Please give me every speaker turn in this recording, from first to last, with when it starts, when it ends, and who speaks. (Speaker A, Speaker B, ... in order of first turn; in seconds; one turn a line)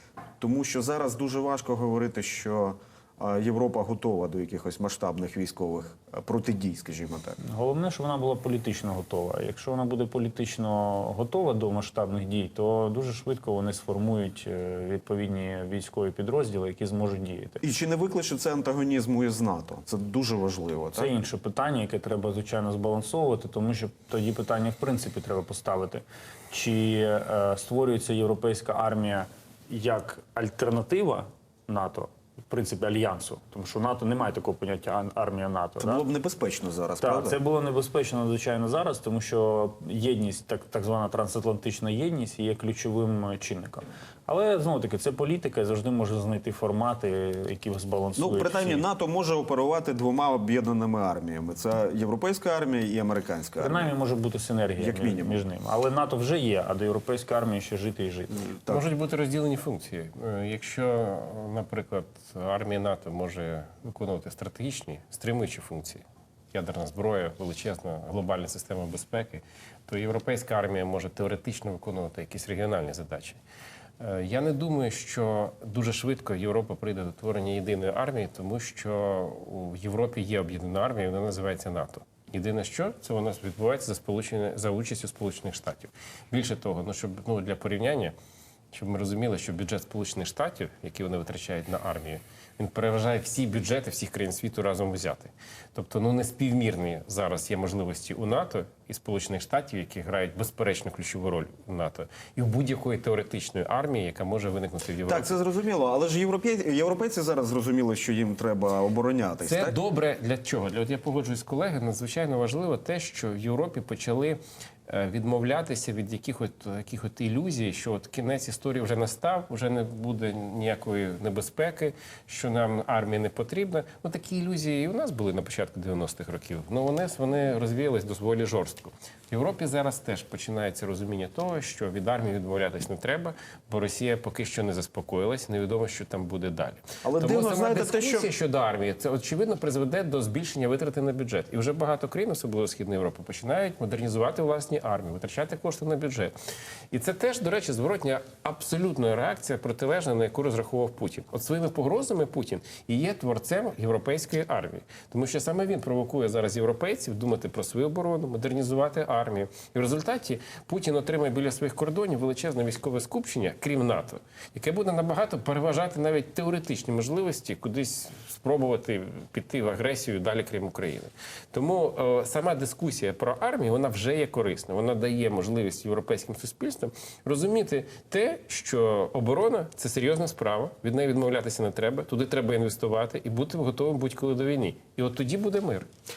Speaker A: 0.4-7.4
Speaker B: 7.4-17.6
Speaker A: 17.6-21.1
Speaker B: 20.9-36.0
Speaker A: 35.8-37.4
Speaker B: 37.0-48.8
Speaker A: 48.2-53.9
Speaker B: 53.6-58.4
Speaker A: 54.8-55.4
Speaker A: 58.4-58.8
Speaker C: 58.7-73.4
Speaker C: 74.0-88.1
Speaker C: 88.7-105.3
Speaker A: 105.0-109.8
Speaker C: 109.4-146.3
Speaker A: 137.0-138.3
Speaker C: 146.9-185.9